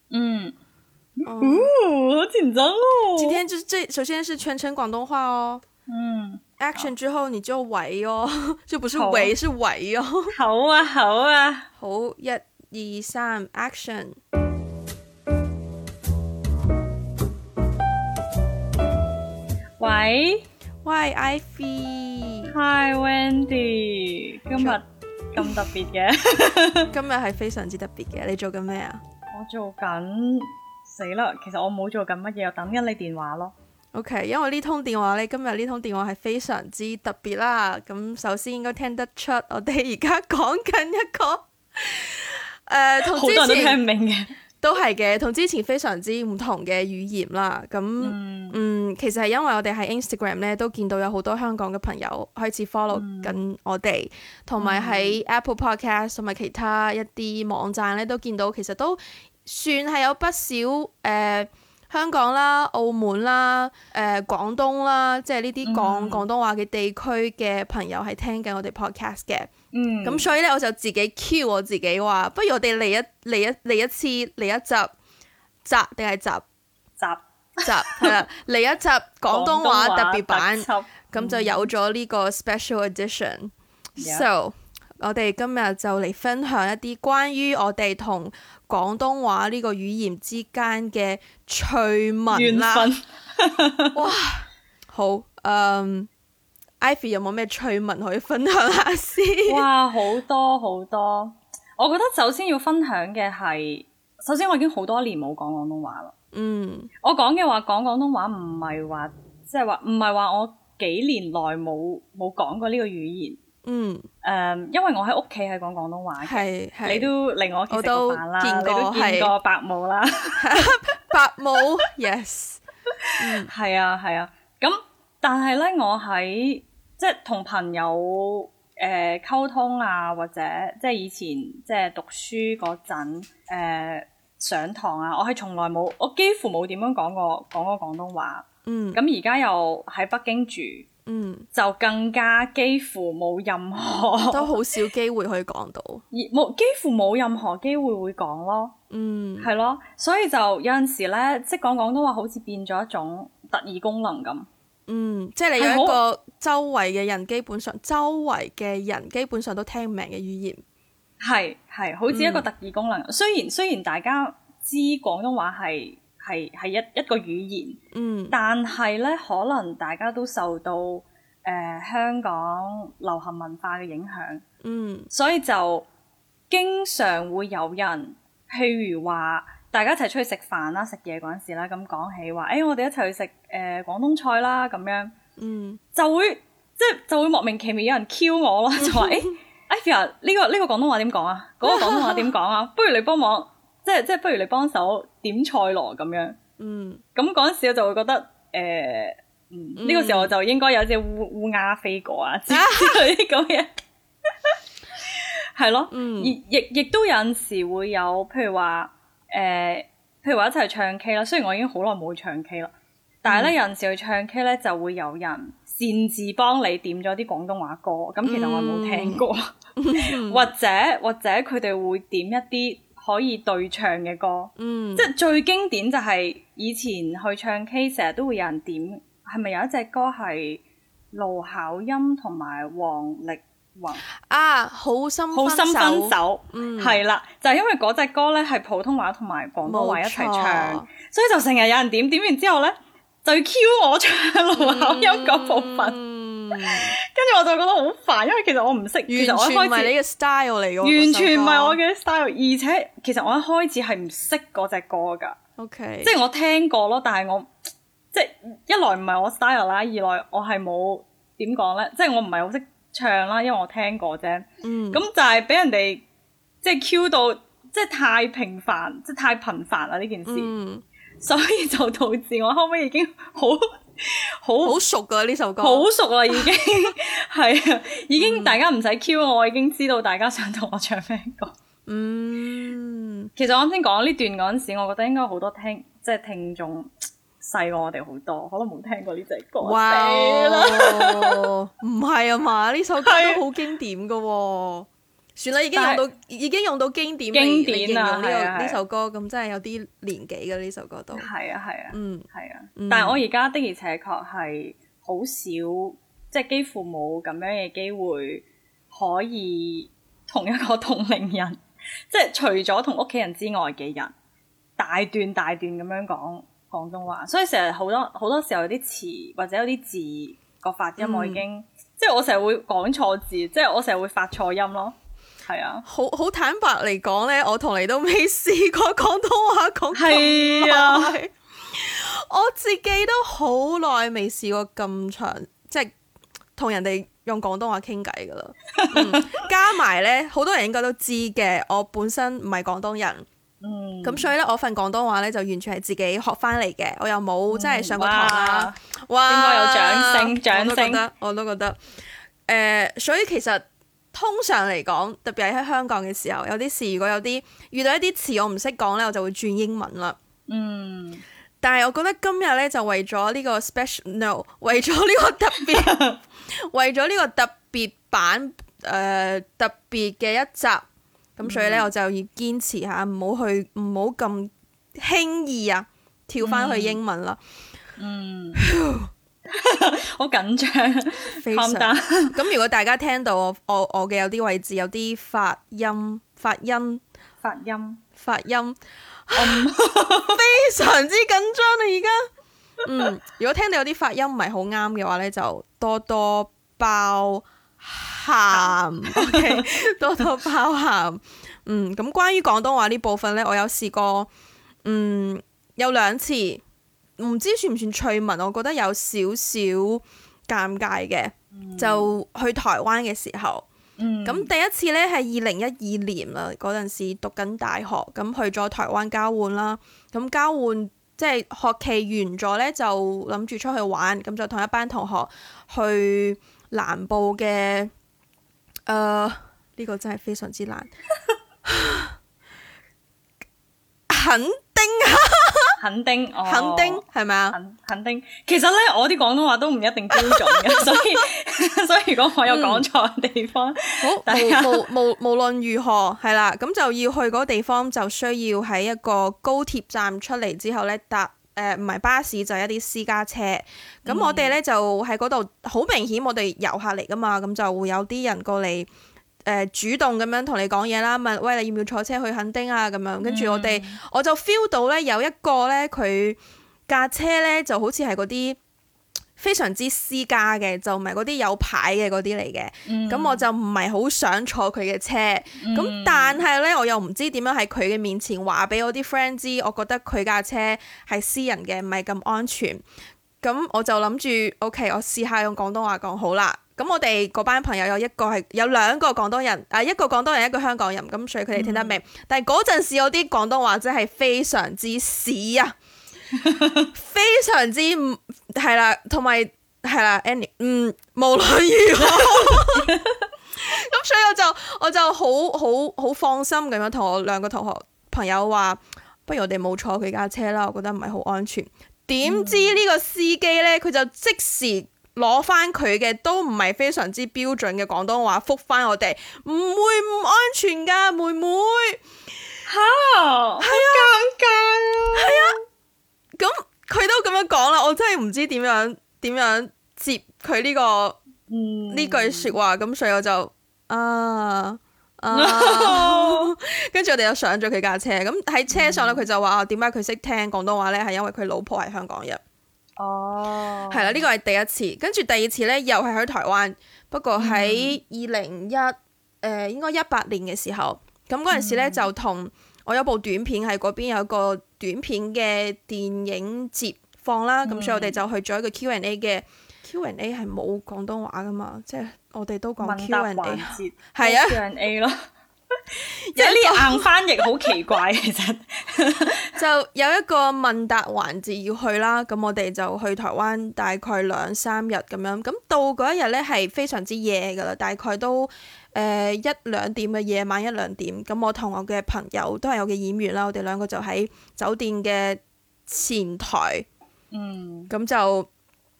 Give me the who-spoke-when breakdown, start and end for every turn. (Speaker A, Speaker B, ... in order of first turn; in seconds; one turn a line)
Speaker A: 0.1-0.5
Speaker A: 1.2-3.4
Speaker B: 1.2-1.7
Speaker B: 3.2-5.6
Speaker A: 5.9-6.9
Speaker B: 6.6-10.3
Speaker A: 8.9-9.3
Speaker A: 10.3-11.7
Speaker B: 11.8-14.2
Speaker A: 19.8-20.4
Speaker B: 20.8-22.5
Speaker A: 22.5-26.9
Speaker B: 26.9-29.0
Speaker A: 29.3-33.5
Speaker B: 33.9-43.8
Speaker A: 43.0-44.3
Speaker B: 44.6-69.5
Speaker A: 48.0-48.6
Speaker A: 52.9-53.4
Speaker A: 54.6-55.2
Speaker A: 65.6-66.2
Speaker A: 69.7-70.3
Speaker B: 70.0-74.9
Speaker B: 75.6-76.4
Speaker A: 77.0-78.2
Speaker B: 77.6-92.9
Speaker A: 79.3-81.7
Speaker A: 84.0-84.3
Speaker A: 92.3-94.0
Speaker B: 93.9-96.1
Speaker B: 96.8-99.7
Speaker A: 99.5-106.1
Speaker B: 106.3-106.9
Speaker A: 107.0-113.4
Speaker B: 113.6-114.0
Speaker A: 114.2-120.8
Speaker B: 116.2-117.1
Speaker B: 117.7-119.3
Speaker B: 120.4-122.6
Speaker A: 123.0-140.8
Speaker B: 123.2-123.5
Speaker B: 138.6-139.0
Speaker B: 141.1-141.5
Speaker A: 141.5-144.6
Speaker B: 144.2-146.0
Speaker A: 146.1-148.7
Speaker B: 148.9-149.5
Speaker A: 149.4-154.5
Speaker B: 154.9-160.6
Speaker A: 155.6-156.0
Speaker A: 161.2-167.8
Speaker B: 162.1-162.5
Speaker B: 167.9-168.3
Speaker A: 168.3-174.4
Speaker B: 174.6-175.1
Speaker A: 175.1-175.9
Speaker A: 176.5-185.1
Speaker B: 185.4-185.8
Speaker A: 185.9-196.4
Speaker B: 188.8-189.3
Speaker B: 191.6-192.3
Speaker B: 196.6-197.0
Speaker A: 197.1-204.6
Speaker B: 199.8-200.3
Speaker B: 202.5-203.0
Speaker A: 205.1-212.7
Speaker B: 205.9-206.3
Speaker A: 213.2-230.6
Speaker B: 213.2-213.5
Speaker B: 218.2-219.2
Speaker B: 219.8-220.5
Speaker B: 224.6-225.1
Speaker A: 231.1-234.0
Speaker B: 234.1-237.0
Speaker A: 235.3-246.0
Speaker B: 239.6-240.9
Speaker B: 244.6-246.9
Speaker A: 246.5-249.9
Speaker B: 249.1-251.8
Speaker A: 250.8-255.4
Speaker B: 255.6-256.1
Speaker A: 256.0-257.5
Speaker A: 258.1-266.0
Speaker B: 264.6-265.0
Speaker A: 266.6-270.5
Speaker B: 270.3-270.8
Speaker A: 271.2-274.8
Speaker B: 274.6-276.5
Speaker A: 275.6-281.5
Speaker B: 278.2-278.6
Speaker B: 281.9-283.3
Speaker A: 283.4-291.5
Speaker B: 289.6-301.3
Speaker A: 293.0-293.4
Speaker A: 295.7-296.0
Speaker A: 297.3-298.8
Speaker A: 301.1-314.1
Speaker B: 301.9-302.2
Speaker B: 302.8-303.2
Speaker A: 314.8-324.9
Speaker B: 321.0-321.4
Speaker A: 325.4-325.8
Speaker B: 325.9-335.9
Speaker A: 329.9-331.1
Speaker B: 336.6-343.2
Speaker A: 338.8-339.3
Speaker A: 343.6-344.3
Speaker B: 344.0-351.8
Speaker A: 347.5-351.0
Speaker B: 352.5-360.2
Speaker A: 360.5-361.2
Speaker B: 361.6-370.8
Speaker A: 365.6-366.2
Speaker B: 371.4-377.4
Speaker A: 371.4-371.9
Speaker A: 376.4-377.0
Speaker A: 378.0-378.7
Speaker B: 378.6-379.1
Speaker A: 379.5-382.3
Speaker B: 381.3-387.0
Speaker A: 387.4-388.0
Speaker B: 388.1-392.3
Speaker A: 389.3-390.4
Speaker B: 392.8-404.3
Speaker A: 398.5-399.6
Speaker B: 404.8-406.6
Speaker B: 407.2-413.6
Speaker A: 411.5-412.1
Speaker A: 414.0-414.5
Speaker B: 414.2-427.9
Speaker B: 428.9-430.9
Speaker B: 431.6-432.1
Speaker B: 434.1-435.8
Speaker A: 435.8-444.9
Speaker B: 436.4-437.6
Speaker B: 440.1-441.1
Speaker B: 442.5-442.8
Speaker B: 444.0-458.9
Speaker A: 454.1-454.5
Speaker B: 459.4-468.6
Speaker A: 463.2-464.0
Speaker B: 469.4-482.8
Speaker A: 472.9-473.4
Speaker A: 475.6-476.4
Speaker B: 483.4-495.7
Speaker A: 491.5-491.9
Speaker A: 496.4-496.9
Speaker B: 496.9-502.9
Speaker A: 502.0-503.2
Speaker B: 503.6-522.0
Speaker A: 512.2-512.8
Speaker A: 522.7-525.5
Speaker B: 523.6-524.3
Speaker B: 525.1-525.6
Speaker B: 526.4-531.2
Speaker A: 531.5-532.5
Speaker B: 531.9-542.4
Speaker A: 535.3-536.5
Speaker A: 538.7-539.2
Speaker A: 543.0-544.2
Speaker B: 543.9-564.6
Speaker A: 547.4-548.0
Speaker A: 551.5-552.1
Speaker A: 557.6-558.2
Speaker A: 562.8-565.1
Speaker B: 566.3-567.7
Speaker A: 566.4-569.5
Speaker B: 569.5-586.9
Speaker A: 587.3-587.9
Speaker B: 587.9-588.5